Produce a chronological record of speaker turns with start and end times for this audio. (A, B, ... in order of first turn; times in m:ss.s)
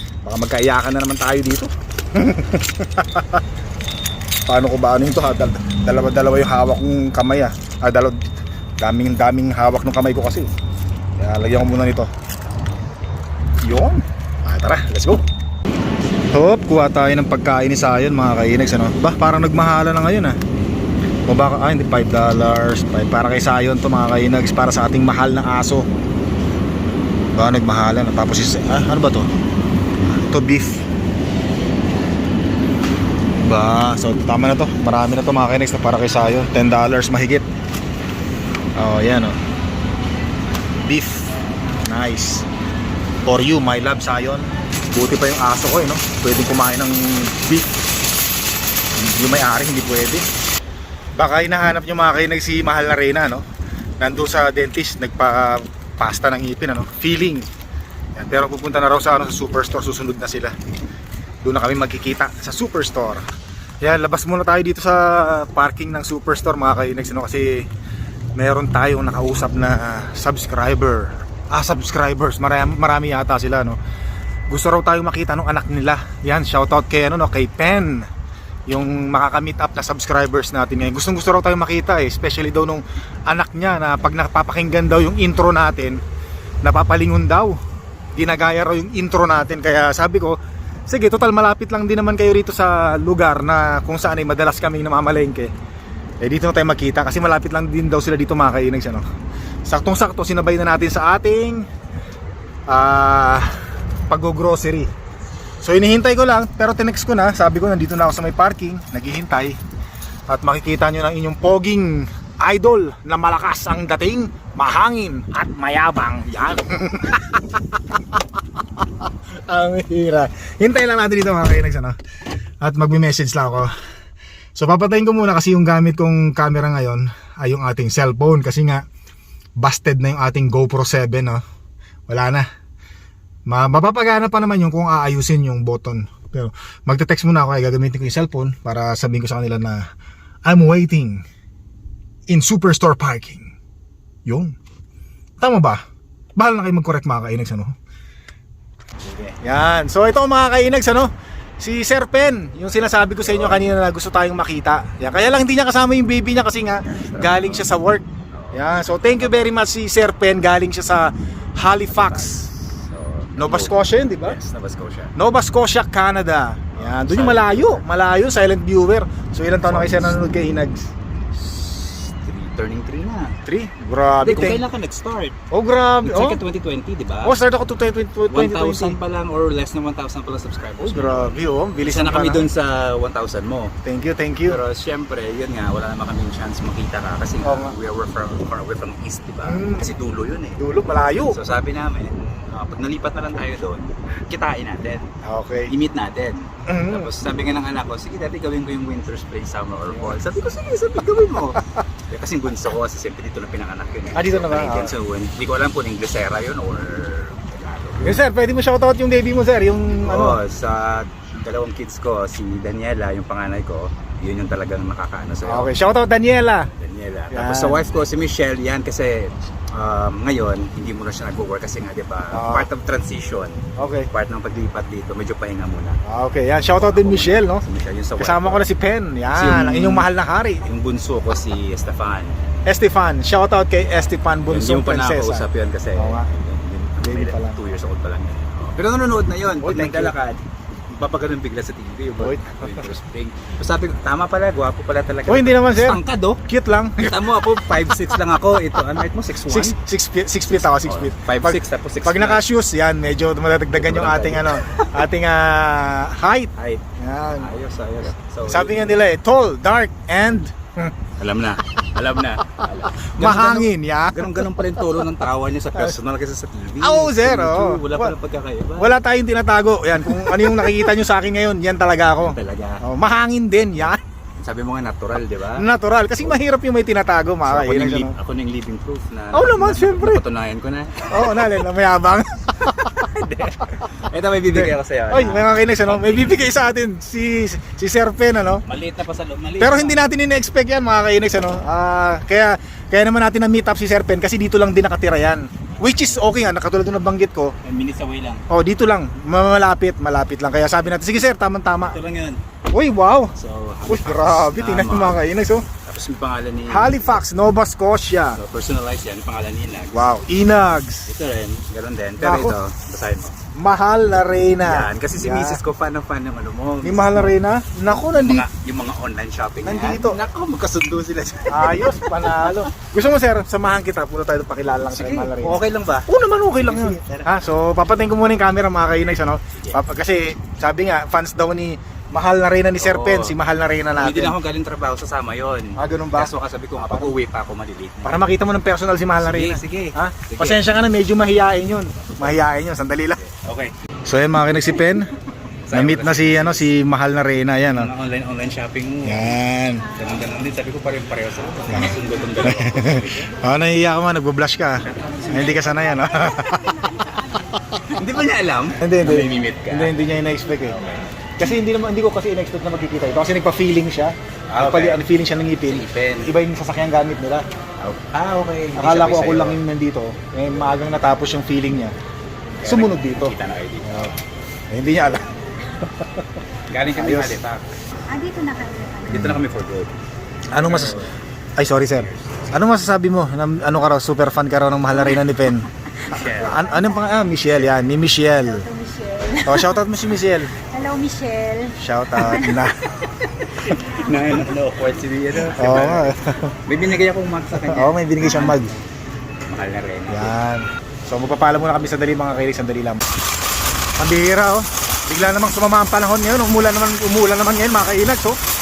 0:00.2-0:03.4 A
0:04.5-0:08.2 A
0:08.8-0:10.5 A
0:11.2-0:12.1 A
0:13.6-0:15.2 A
0:16.3-0:20.4 A
0:21.3-0:25.9 A
0:27.4-0:29.3 A
0:30.1-0:30.8 A
0:33.5-0:37.4 A
0:38.8-0:39.4 A
0:40.8-0:41.3 A
0:41.8-0:42.5 A
0:43.3-0:47.7 A
0:49.0-0:50.2 A
0:51.2-0:53.4 A
0:54.0-0:57.5 A
0:58.2-1:00.6 A
1:01.4-1:03.2 A
1:03.8-1:07.7 A
1:08.4-1:13.8 A
1:14.5-1:18.1 A
1:18.7-1:26.0 A
1:26.6-1:27.6 A
1:28.2-1:35.5 A
1:36.2-1:39.0 A
1:39.7-1:41.7 A
1:42.7-1:43.6 A
1:44.1-1:44.9 A
1:45.6-1:49.6 A
1:50.3-1:57.6 A
1:58.8-2:02.0 A
2:02.6-2:03.7 A
2:04.6-2:08.9 A
2:09.6-2:11.4 A
2:12.1-2:12.5 A
2:13.5-2:19.9 A
2:20.5-2:21.2 A
2:22.3-2:23.5 A
2:24.3-2:24.6 A
2:25.4-2:25.8 A
2:26.4-2:27.8 A
2:29.1-2:42.5 A
2:33.2-2:33.7 B
2:36.9-2:37.7 B
2:38.3-2:39.5 B
2:41.9-2:45.2 B
2:43.4-2:44.4 A
2:45.2-2:50.9 A
2:46.8-2:47.9 B
2:49.6-2:50.2 B
2:51.3-2:53.4 B
2:53.4-2:54.6 A
2:54.2-2:55.4 B
2:55.5-2:56.4 A
2:56.0-2:57.4 B
2:57.2-2:59.0 A
2:58.3-3:03.7 B
3:00.8-3:02.5 A
3:03.8-3:04.6 A
3:04.5-3:15.2 B
3:07.4-3:07.8 A
3:09.4-3:09.9 A
3:10.6-3:11.4 A
3:15.2-3:15.7 A
3:15.7-3:28.2 B
3:16.7-3:17.1 A
3:19.9-3:20.2 A
3:24.1-3:25.0 A
3:28.0-3:30.4 A
3:29.9-3:35.7 B
3:35.5-3:36.7 A
3:36.8-3:46.0 B
3:37.3-3:37.9 A
3:42.3-3:42.7 A
3:43.8-3:44.1 A
3:46.0-3:47.6 A
3:46.7-3:48.7 B
3:48.2-3:50.6 A
3:49.3-3:50.1 B
3:50.6-3:52.4 B
3:52.7-3:56.3 A
3:54.5-4:06.4 B
3:57.0-3:57.6 A
3:59.6-4:00.1 A
4:02.2-4:02.9 A
4:05.3-4:07.3 A
4:07.0-4:09.8 B
4:09.5-4:17.5 A
4:10.5-4:12.4 B
4:13.7-4:14.9 B
4:16.6-4:19.0 B
4:18.4-4:21.0 A
4:21.2-4:29.0 B
4:23.0-4:24.9 A
4:26.8-4:28.1 A
4:28.8-4:34.0 A
4:30.1-4:30.8 B
4:32.2-4:32.8 B
4:34.4-4:35.7 B
4:35.6-4:38.2 A
4:37.4-4:41.6 B
4:39.3-4:40.2 A
4:41.0-4:43.1 A
4:42.7-4:46.6 B
4:44.5-4:48.6 A
4:48.6-4:50.2 B
4:49.6-4:57.6 A
4:55.8-4:56.2 B
4:57.6-4:58.5 B
4:58.5-5:02.0 A
5:01.8-5:02.4 B
5:02.7-5:03.4 A
5:03.4-5:05.2 B
5:03.9-5:05.7 A
5:05.8-5:07.2 B
5:06.7-5:08.4 A
5:08.4-5:10.2 B
5:09.9-5:11.1 A
5:11.1-5:13.4 B
5:12.2-5:12.6 A
5:13.6-5:15.6 A
5:14.6-5:17.4 B
5:16.8-5:18.5 A
5:18.1-5:22.7 B
5:19.6-5:20.2 A
5:21.5-5:34.4 A
5:24.9-5:27.3 B
5:29.5-5:29.8 B
5:32.8-5:33.4 B
5:34.0-5:38.3 B
5:35.8-5:37.1 A
5:38.0-5:43.2 A
5:39.2-5:40.7 B
5:42.0-5:42.4 B
5:43.2-5:43.7 B
5:44.1-5:45.1 A
5:45.7-5:46.8 B
5:45.7-5:47.9 A
5:47.7-5:53.4 B
5:49.0-5:49.9 A
5:51.7-5:57.8 A
5:54.9-5:55.6 B
5:55.4-5:57.6 C
5:57.9-6:00.0 B
5:58.8-6:00.8 A
6:00.7-6:01.6 B
6:01.4-6:07.5 A
6:04.5-6:05.0 B
6:05.6-6:06.4 B
6:07.8-6:09.6 B
6:08.8-6:12.0 A
6:12.6-6:14.2 B
6:12.6-6:14.2 A
6:14.7-6:16.3 A
6:16.7-6:17.7 B
6:16.9-6:17.4 A
6:18.1-6:19.3 C
6:19.1-6:20.0 B
6:19.1-6:19.4 A
6:20.5-6:28.7 A
6:20.6-6:21.2 B
6:21.9-6:22.5 B
6:26.1-6:26.7 B
6:26.6-6:27.2 C
6:28.4-6:29.8 C
6:29.4-6:30.5 A
6:30.6-6:32.8 C
6:31.8-6:32.9 A
6:33.7-6:34.1 C
6:33.7-6:38.6 B
6:35.4-6:36.6 A
6:37.5-6:38.8 A
6:38.2-6:38.6 C
6:39.4-6:40.4 B
6:40.1-6:43.0 A
6:44.0-6:48.4 A